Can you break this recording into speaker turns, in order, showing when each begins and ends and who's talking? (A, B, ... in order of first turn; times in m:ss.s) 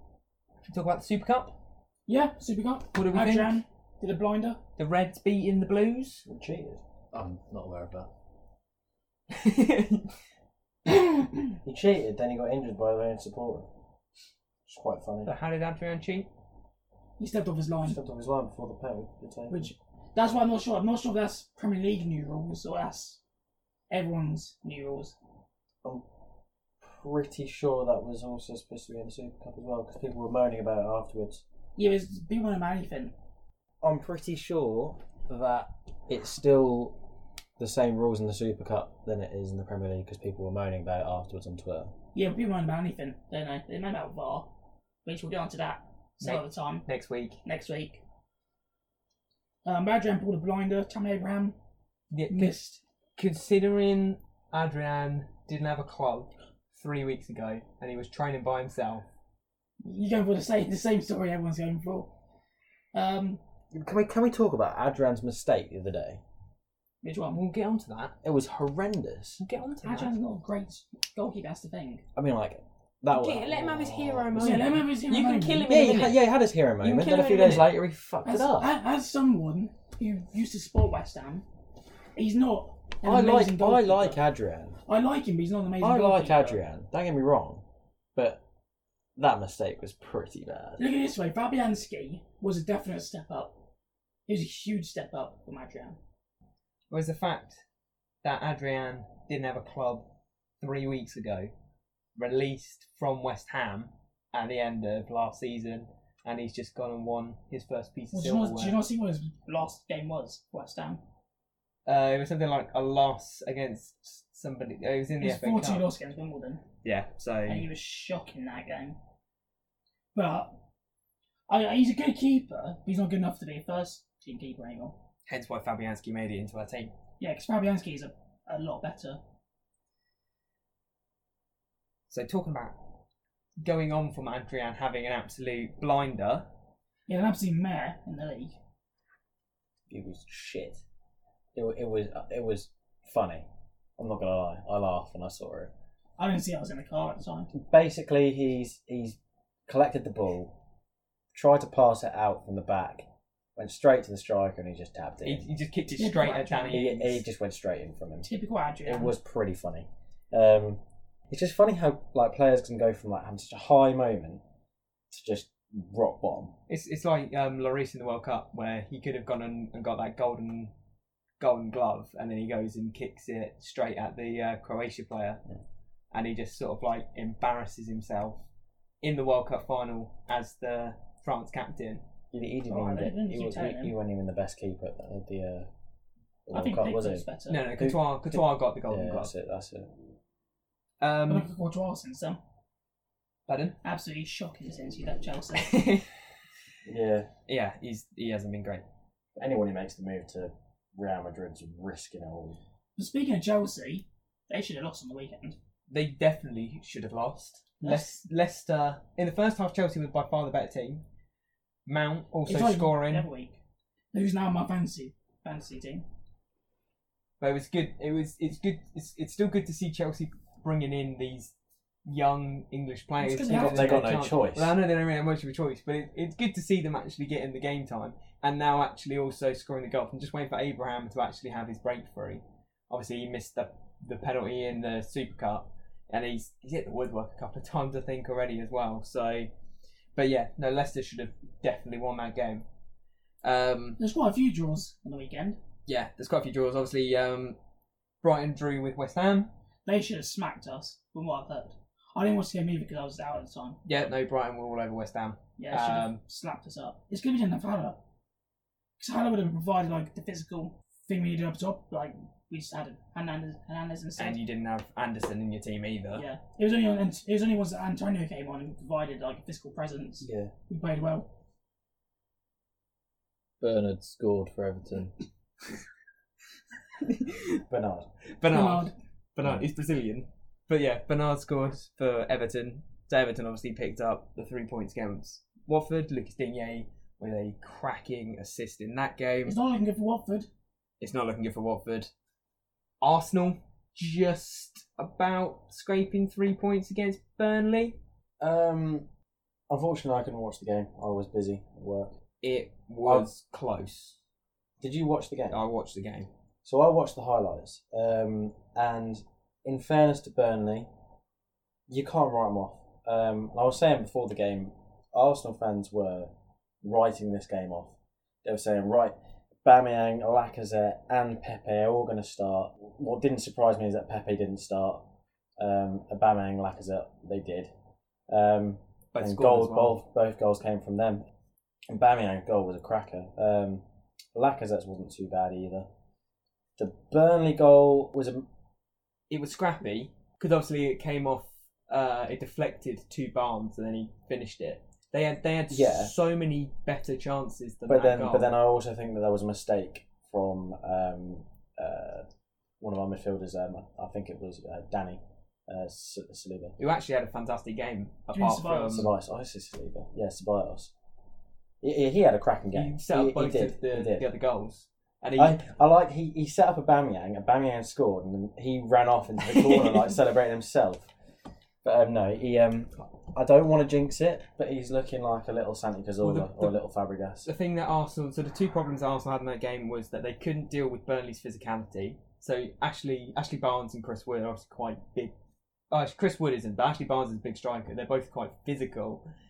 0:00.7-0:01.6 A
0:02.1-0:04.6 B
0:02.9-0:03.6 A
0:04.8-0:06.2 A
0:06.2-0:06.8 C
0:07.1-0:08.1 D
0:09.3-0:10.2 A
0:10.8-0:11.5 B
0:11.6-0:13.7 C
0:14.6-0:15.3 C
0:15.2-0:16.3 A
0:17.2-0:18.0 B
0:17.8-0:19.7 C
0:19.5-0:23.2 B
0:23.9-0:25.2 B
0:26.8-0:31.4 C
0:31.8-0:33.1 B
0:33.8-0:37.0 C
0:37.6-0:41.9 C
0:42.1-0:44.5 B
0:45.0-0:46.8 B
0:46.2-0:47.4 A
0:47.4-0:48.0 B
0:49.6-0:51.6 B
0:52.1-0:52.5 A
0:52.3-0:52.8 B
0:53.2-0:59.0 A
0:59.8-1:02.1 B
1:02.9-1:03.4 B
1:03.7-1:06.2 C
1:07.0-1:07.4 B
1:07.3-1:08.2 A
1:08.2-1:09.4 C
1:09.4-1:10.1 A
1:09.8-1:12.0 B
1:12.2-1:14.4 C
1:13.1-1:16.2 A
1:14.4-1:15.7 B
1:15.6-1:18.7 C
1:16.8-1:17.8 A
1:18.2-1:21.4 B
1:22.2-1:24.2 B
1:23.0-1:24.8 C
1:24.9-1:26.6 B
1:25.8-1:27.6 C
1:28.1-1:28.4 C
1:29.2-1:30.8 C
1:30.8-1:33.6 B
1:34.3-1:36.0 B
1:36.9-1:37.6 A
1:38.2-1:40.1 A
1:40.6-1:41.5 A
1:42.2-1:48.8 A
1:48.1-1:51.0 B
1:51.8-1:55.8 A
1:55.2-1:56.6 B
1:56.8-1:57.7 A
1:57.4-1:59.0 B
2:00.1-2:00.6 B
2:01.5-2:05.0 B
2:05.3-2:06.9 A
2:07.2-2:09.2 B
2:12.1-2:12.8 A
2:13.6-2:16.5 A
2:17.1-2:18.6 B
2:19.9-2:20.8 C
2:21.5-2:23.4 C
2:24.0-2:25.7 C
2:26.2-2:27.5 B
2:27.5-2:30.6 C
2:31.3-2:35.4 C
2:35.2-2:37.2 A
2:35.9-2:36.9 B
2:36.7-2:38.3 C
2:38.2-2:39.1 B
2:38.8-2:44.4 C
2:45.1-2:46.5 C
2:46.7-2:50.7 A
2:51.4-2:55.4 A
2:56.1-2:58.5 A
2:59.0-3:02.0 A
3:02.3-3:05.7 C
3:02.7-3:03.9 B
3:06.5-3:09.9 C
3:06.5-3:07.6 B
3:07.5-3:09.3 A
3:11.0-3:11.5 A
3:11.3-3:12.4 B
3:13.5-3:13.8 A
3:13.8-3:15.9 B
3:15.5-3:16.1 A
3:16.8-3:17.3 C
3:17.5-3:18.8 A
3:19.4-3:22.6 C
3:23.0-3:25.6 B
3:25.9-3:31.0 A
3:27.8-3:28.1 B
3:31.8-3:33.3 A
3:32.4-3:33.6 B
3:34.1-3:36.0 B
3:37.4-3:41.5 A
3:42.0-3:59.5 A
3:43.2-3:44.1 B
3:43.5-3:44.7 C
4:00.1-4:02.6 A
4:03.4-4:04.0 A
4:04.0-4:05.6 B
4:05.9-4:07.6 A
4:08.2-4:09.5 A
4:09.8-4:13.8 B
4:13.8-4:16.2 A
4:15.6-4:18.0 B
4:19.0-4:24.4 B
4:24.2-4:26.2 A
4:26.1-4:31.3 B
4:30.2-4:30.5 C
4:33.6-4:35.2 D
4:37.0-4:37.6 A
4:37.7-4:38.1 C
4:38.2-4:49.6 A
4:38.4-4:38.9 B
4:49.4-4:50.5 B
4:51.0-4:52.1 A
4:53.0-4:58.0 A
4:58.4-4:59.1 C
4:59.7-5:02.1 C
5:02.4-5:04.2 A
5:04.8-5:05.6 C
5:05.5-5:06.3 A
5:06.6-5:10.9 C
5:11.9-5:25.1 C
5:25.6-5:27.7 C
5:28.3-5:31.2 C
5:29.1-5:30.0 A
5:31.9-5:33.8 C
5:34.3-5:35.9 C
5:36.8-5:38.4 C
5:39.3-5:48.5 A
5:45.7-5:46.1 C
5:47.9-5:52.3 C
5:52.8-5:56.8 C
5:56.8-5:59.1 A
5:58.3-5:59.1 B
5:58.9-6:00.9 C
6:01.8-6:04.3 C
6:02.7-6:05.6 A
6:05.4-6:11.1 C
6:09.4-6:10.2 A
6:11.8-6:17.5 C
6:16.2-6:16.8 A
6:17.4-6:25.3 A
6:25.9-6:29.2 A